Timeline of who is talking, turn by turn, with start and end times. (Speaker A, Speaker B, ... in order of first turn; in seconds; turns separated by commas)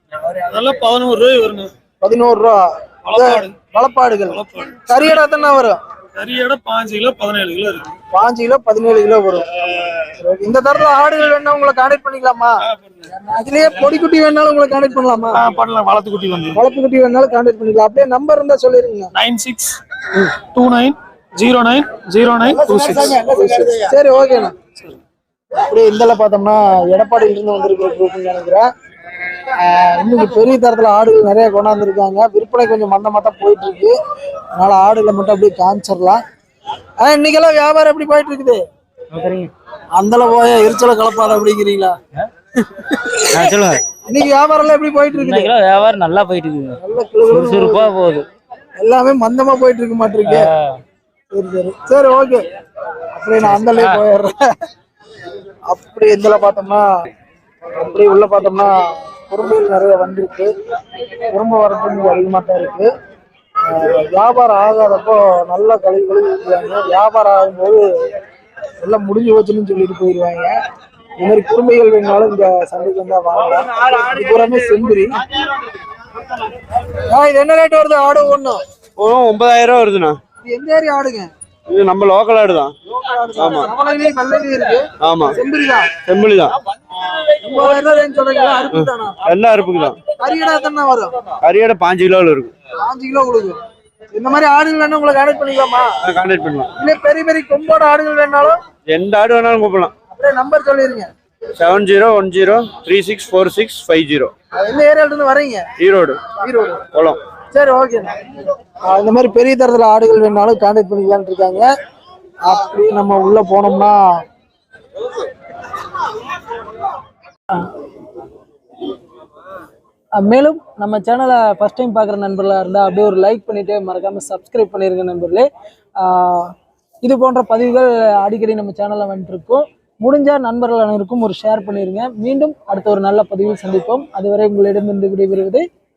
Speaker A: 0.3-1.7, Speaker B: 2.0-5.8, Speaker A: 3.1-3.5, Speaker A: 4.3-4.8, Speaker A: 6.2-7.9, Speaker B: 8.1-12.5, Speaker B: 13.2-15.5, Speaker A: 15.3-16.6, Speaker B: 16.5-19.1, Speaker A: 19.1-19.8, Speaker A: 20.4-23.1, Speaker B: 22.4-24.5, Speaker B: 25.5-28.6, Speaker B: 29.6-34.0, Speaker B: 34.6-36.2, Speaker B: 37.0-38.6, Speaker C: 39.1-39.5, Speaker B: 39.9-41.9, Speaker C: 43.3-43.7, Speaker B: 44.1-45.5, Speaker C: 45.1-46.8, Speaker B: 46.8-48.0, Speaker C: 47.3-48.2, Speaker B: 48.8-50.5, Speaker B: 51.3-52.5, Speaker B: 53.1-54.5, Speaker B: 55.7-56.8, Speaker B: 57.8-60.5, Speaker B: 61.2-62.9, Speaker B: 63.7-68.0, Speaker B: 68.8-70.6, Speaker B: 71.2-75.2, Speaker B: 77.1-78.6, Speaker D: 79.0-80.2, Speaker B: 80.4-81.3, Speaker D: 81.7-82.7, Speaker B: 82.9-85.9, Speaker D: 83.3-83.7, Speaker D: 85.0-85.3, Speaker D: 86.0-86.5, Speaker B: 87.4-89.2, Speaker D: 88.7-90.0, Speaker B: 90.2-91.2, Speaker D: 91.4-92.5, Speaker B: 92.8-93.6, Speaker B: 94.1-95.9, Speaker D: 96.0-96.7, Speaker B: 96.8-98.6, Speaker D: 98.9-99.9, Speaker B: 100.1-101.1, Speaker D: 101.6-104.3, Speaker B: 104.5-105.7, Speaker D: 105.8-106.2, Speaker B: 106.3-106.8, Speaker D: 106.9-107.2, Speaker B: 107.5-108.2, Speaker B: 108.8-111.7, Speaker B: 112.4-114.0, Speaker B: 120.2-125.5, Speaker B: 126.0-135.6